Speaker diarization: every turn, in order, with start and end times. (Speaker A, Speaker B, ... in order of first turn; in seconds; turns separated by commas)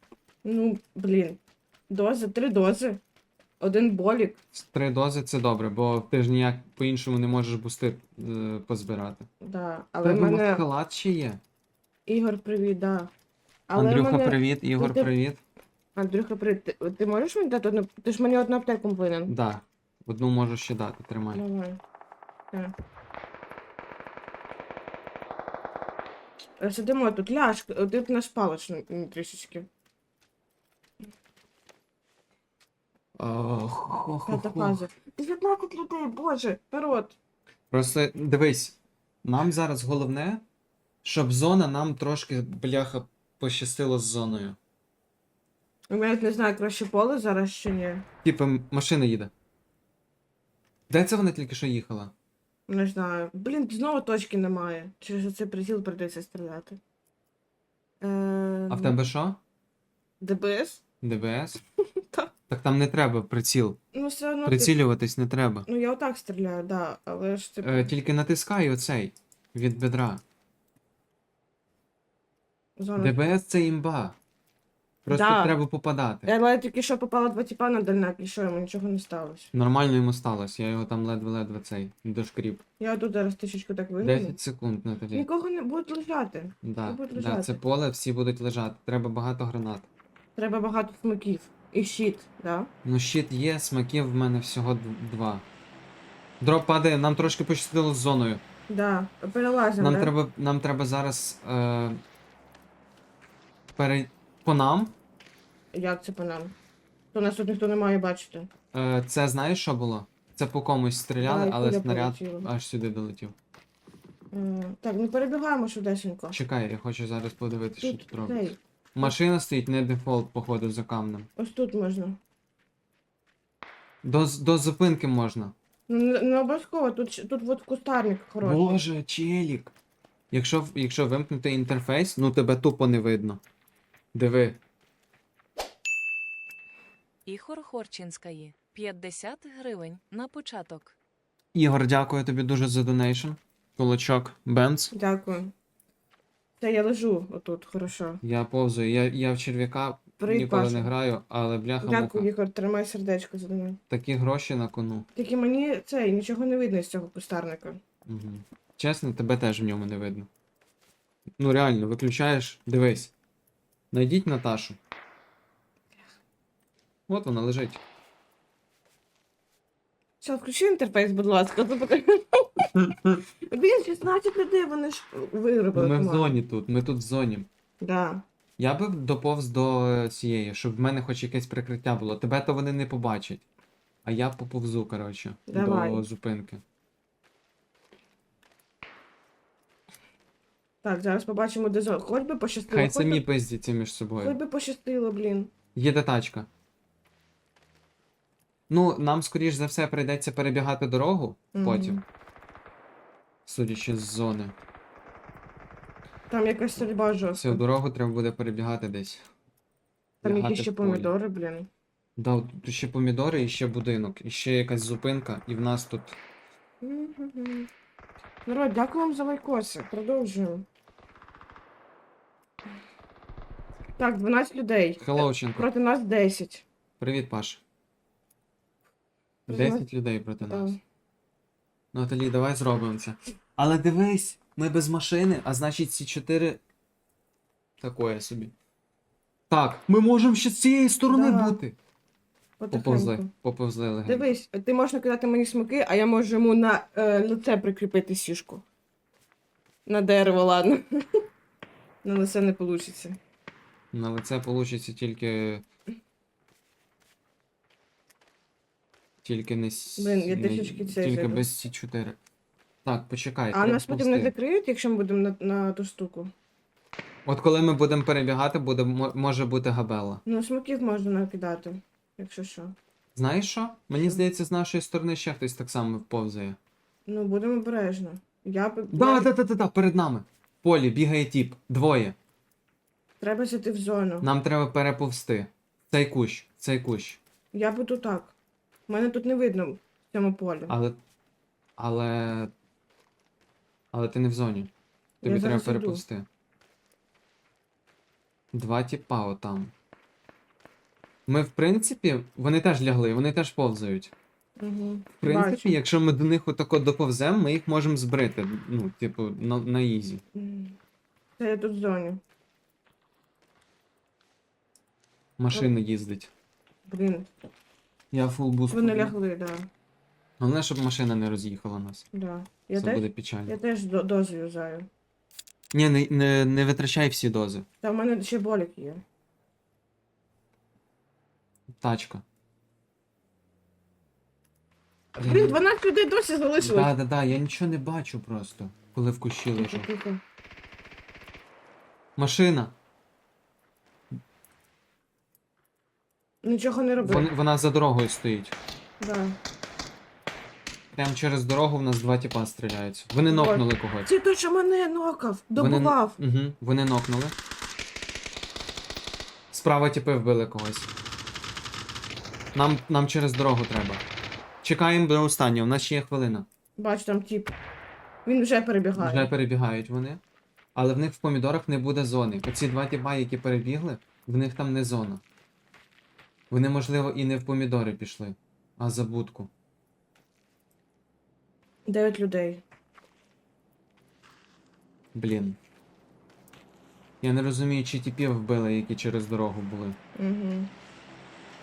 Speaker A: 0.4-3.0, Speaker A: 3.6-4.4, Speaker B: 4.5-9.3, Speaker A: 9.4-10.6, Speaker B: 10.0-11.4, Speaker A: 12.1-13.1, Speaker A: 13.7-15.1, Speaker B: 13.7-15.4, Speaker A: 15.9-19.3, Speaker B: 19.2-21.4, Speaker A: 21.3-21.8, Speaker A: 26.6-29.7, Speaker B: 33.1-34.8, Speaker A: 34.3-37.1, Speaker B: 37.7-40.4, Speaker B: 41.0-44.6, Speaker A: 45.9-48.0, Speaker B: 48.2-49.3, Speaker B: 50.9-52.1, Speaker A: 52.7-56.8, Speaker A: 58.0-59.0, Speaker B: 58.7-59.4, Speaker A: 60.2-60.8, Speaker B: 61.0-61.6, Speaker A: 62.0-62.3, Speaker B: 62.5-63.8, Speaker A: 63.9-64.8, Speaker B: 64.4-65.7, Speaker A: 65.7-67.9, Speaker B: 67.6-70.2, Speaker A: 72.8-73.2, Speaker B: 73.0-74.2, Speaker B: 75.0-76.3, Speaker A: 75.1-75.5, Speaker A: 76.2-79.5, Speaker B: 79.5-82.6, Speaker A: 82.8-84.4, Speaker B: 84.0-85.3, Speaker A: 85.1-87.6, Speaker B: 86.6-89.9, Speaker A: 90.3-92.7, Speaker B: 92.8-95.5, Speaker B: 96.4-98.4, Speaker A: 98.7-100.1, Speaker B: 99.8-102.0, Speaker B: 103.8-104.9, Speaker A: 105.7-106.5, Speaker A: 107.1-108.5, Speaker B: 108.7-113.3, Speaker A: 111.2-112.5, Speaker A: 114.3-116.4, Speaker B: 116.3-121.3, Speaker A: 117.8-119.1, Speaker A: 121.4-122.2, Speaker B: 124.0-125.5, Speaker A: 125.9-128.8, Speaker B: 128.4-129.7, Speaker B: 130.3-133.4, Speaker B: 134.1-134.6, Speaker C: 137.2-140.9, Speaker B: 141.5-144.9, Speaker A: 144.9-145.5, Speaker A: 146.6-148.2, Speaker B: 148.2-152.3, Speaker A: 150.2-150.9, Speaker A: 151.8-153.8, Speaker B: 153.9-155.1, Speaker A: 155.1-157.8, Speaker B: 158.1-160.3, Speaker B: 161.4-163.1, Speaker B: 163.9-164.8, Speaker B: 167.1-167.8, Speaker A: 170.2-172.7, Speaker A: 173.5-176.3, Speaker B: 175.7-177.5, Speaker A: 177.8-178.2, Speaker B: 178.6-183.4, Speaker B: 184.0-186.6, Speaker A: 185.5-186.0, Speaker A: 190.8-193.2, Speaker B: 192.7-194.4, Speaker A: 194.2-195.5, Speaker B: 195.7-196.5, Speaker B: 198.7-202.0, Speaker A: 201.5-202.0, Speaker B: 203.4-204.6, Speaker A: 206.3-207.6, Speaker B: 207.4-209.2, Speaker A: 210.2-211.7, Speaker B: 210.2-211.1, Speaker B: 212.2-216.2, Speaker A: 216.8-217.7, Speaker A: 218.4-220.7, Speaker A: 224.0-226.6, Speaker B: 225.0-225.7, Speaker B: 227.0-227.6, Speaker B: 229.5-230.8, Speaker A: 229.5-229.8, Speaker A: 230.5-230.8, Speaker B: 231.9-236.6, Speaker B: 237.8-238.5, Speaker B: 239.5-241.8, Speaker A: 241.1-241.6, Speaker A: 242.6-243.3, Speaker B: 242.7-244.3, Speaker A: 244.1-248.6, Speaker A: 249.8-251.2, Speaker A: 252.0-253.2, Speaker B: 253.9-255.6, Speaker B: 259.2-262.2, Speaker A: 260.0-261.5, Speaker B: 262.8-264.3, Speaker A: 263.5-266.3, Speaker B: 267.2-270.2, Speaker A: 270.2-272.8, Speaker B: 273.1-276.6, Speaker A: 273.9-274.2, Speaker A: 277.1-279.3, Speaker B: 278.9-282.2, Speaker A: 283.2-284.3, Speaker B: 284.2-287.2, Speaker A: 287.5-288.3, Speaker A: 288.9-290.7, Speaker B: 290.7-291.0, Speaker B: 291.8-292.5, Speaker B: 293.9-294.7, Speaker B: 295.2-296.3, Speaker A: 295.2-296.0, Speaker B: 298.5-299.7, Speaker B: 301.3-304.1, Speaker A: 304.6-305.8, Speaker B: 305.2-310.2, Speaker A: 310.3-310.8, Speaker A: 311.4-312.2, Speaker B: 315.4-316.3, Speaker A: 316.9-317.3, Speaker B: 318.1-319.1, Speaker A: 318.7-319.7, Speaker B: 320.4-322.1, Speaker A: 322.1-324.9, Speaker B: 322.8-323.6, Speaker B: 325.7-327.6, Speaker A: 327.8-329.0, Speaker B: 331.8-332.2, Speaker B: 335.1-335.6, Speaker A: 335.2-336.9, Speaker B: 336.6-339.9, Speaker A: 339.6-340.2, Speaker B: 342.1-342.7, Speaker A: 346.4-347.3, Speaker B: 347.0-348.6, Speaker A: 349.0-349.4, Speaker B: 350.9-354.1, Speaker A: 353.3-356.2, Speaker B: 355.6-357.3, Speaker B: 359.5-360.9, Speaker B: 362.5-364.0, Speaker B: 364.6-366.4, Speaker A: 366.8-367.5, Speaker A: 368.2-369.3, Speaker B: 368.9-370.2, Speaker B: 370.7-375.2, Speaker B: 376.5-379.5, Speaker A: 381.9-382.6, Speaker B: 385.1-385.6, Speaker B: 387.2-390.0, Speaker A: 390.1-390.7